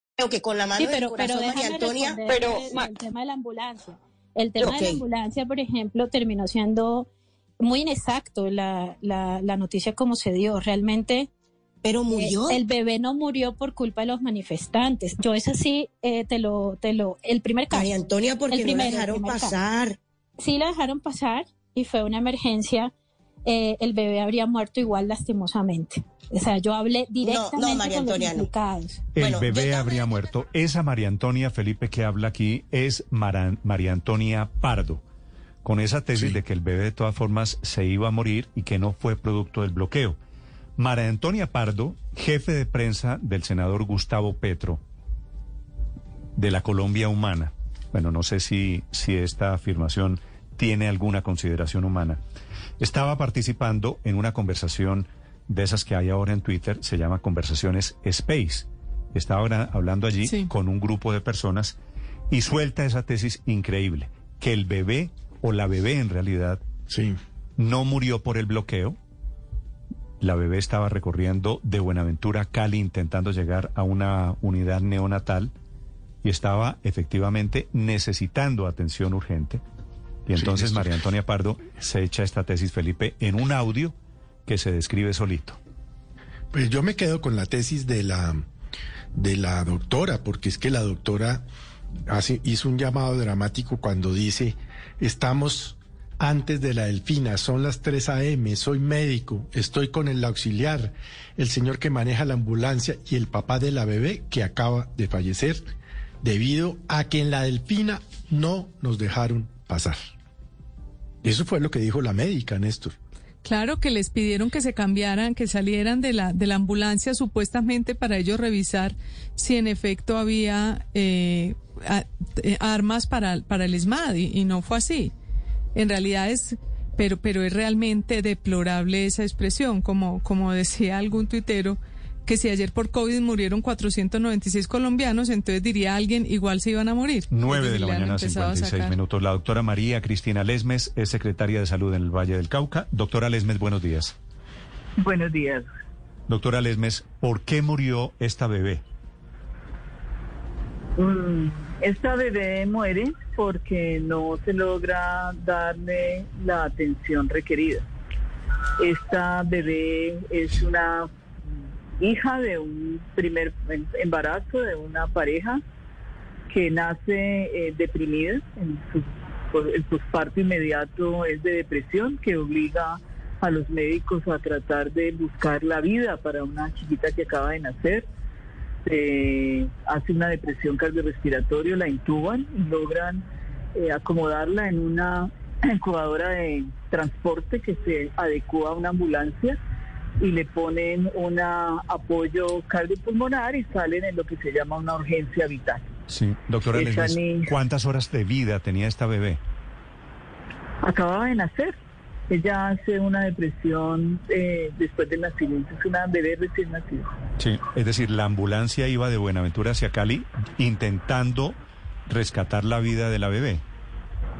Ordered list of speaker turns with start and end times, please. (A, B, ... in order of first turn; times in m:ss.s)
0:00.2-0:02.9 A
0:00.8-0:07.1 B
0:04.6-0:05.0 A
0:07.6-0:11.3 B
0:11.8-0:12.6 A
0:12.1-0:19.6 B
0:17.7-0:20.0 A
0:20.4-0:22.9 B
0:23.4-0:29.0 B
0:27.2-0:28.5 A
0:29.2-0:35.0 C
0:29.2-0:30.2 A
0:35.6-0:40.2 C
0:40.8-0:44.8 C
0:46.4-0:52.2 C
0:52.8-1:01.8 C
1:02.3-1:06.6 C
1:06.9-1:07.2 D
1:07.6-1:09.0 C
1:10.2-1:15.5 C
1:16.2-1:19.6 C
1:20.3-1:23.9 C
1:20.4-1:20.9 D
1:24.5-1:25.6 C
1:26.5-1:28.5 D
1:29.2-1:31.5 D
1:32.1-1:45.7 D
1:46.2-1:50.0 D
1:51.2-1:53.0 D
1:53.4-2:05.1 E
2:05.8-2:19.0 E
2:17.3-2:24.2 C
2:25.0-2:25.7 F
2:26.3-2:28.8 C
2:31.0-2:37.9 F
2:38.8-2:41.1 F
2:42.0-2:45.6 F
2:46.5-2:58.1 F
2:58.9-3:09.6 F
3:10.2-3:15.8 F
3:16.1-3:19.4 C
3:16.7-3:17.5 F
3:20.8-3:21.8 F
3:22.3-3:27.1 F
3:27.4-3:31.6 C
3:32.1-3:33.6 C